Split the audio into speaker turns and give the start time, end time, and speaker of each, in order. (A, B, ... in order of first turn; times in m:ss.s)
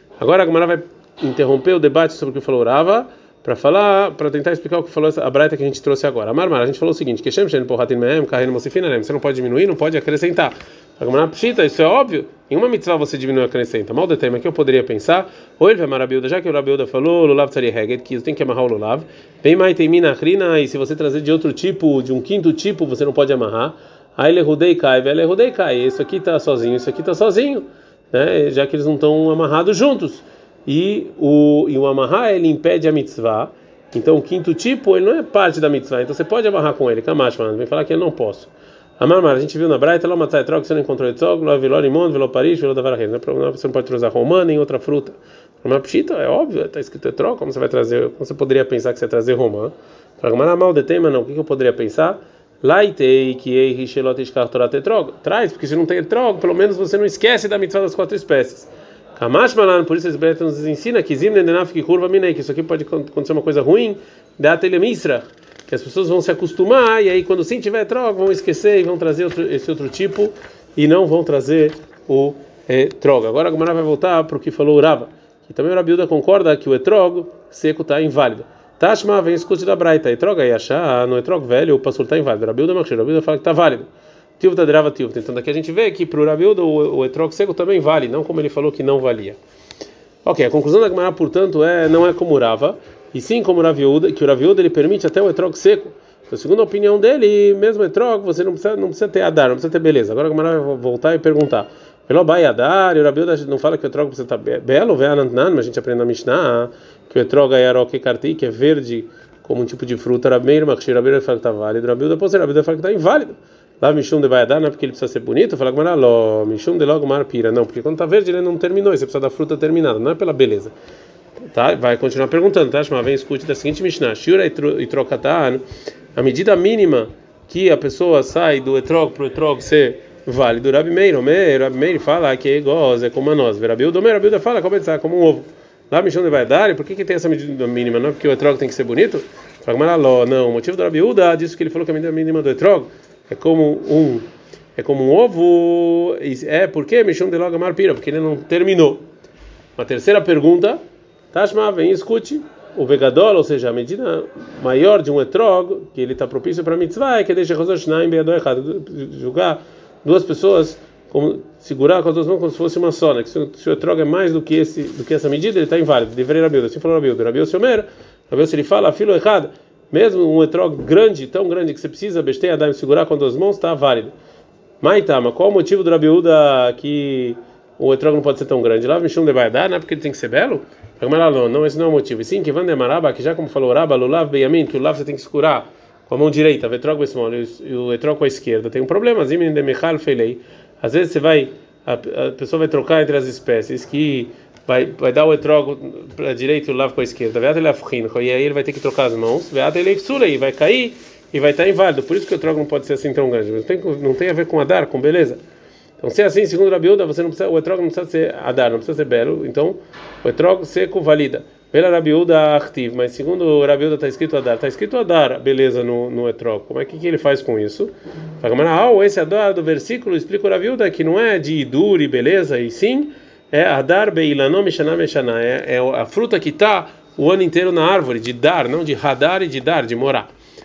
0:00.2-1:29.4 A
1:30.2-2:00.7 A
2:01.4-2:05.6 A
2:06.1-2:29.0 A
2:29.8-2:30.8 A
2:31.3-2:54.1 A
2:54.8-3:25.4 A
3:26.0-3:50.3 A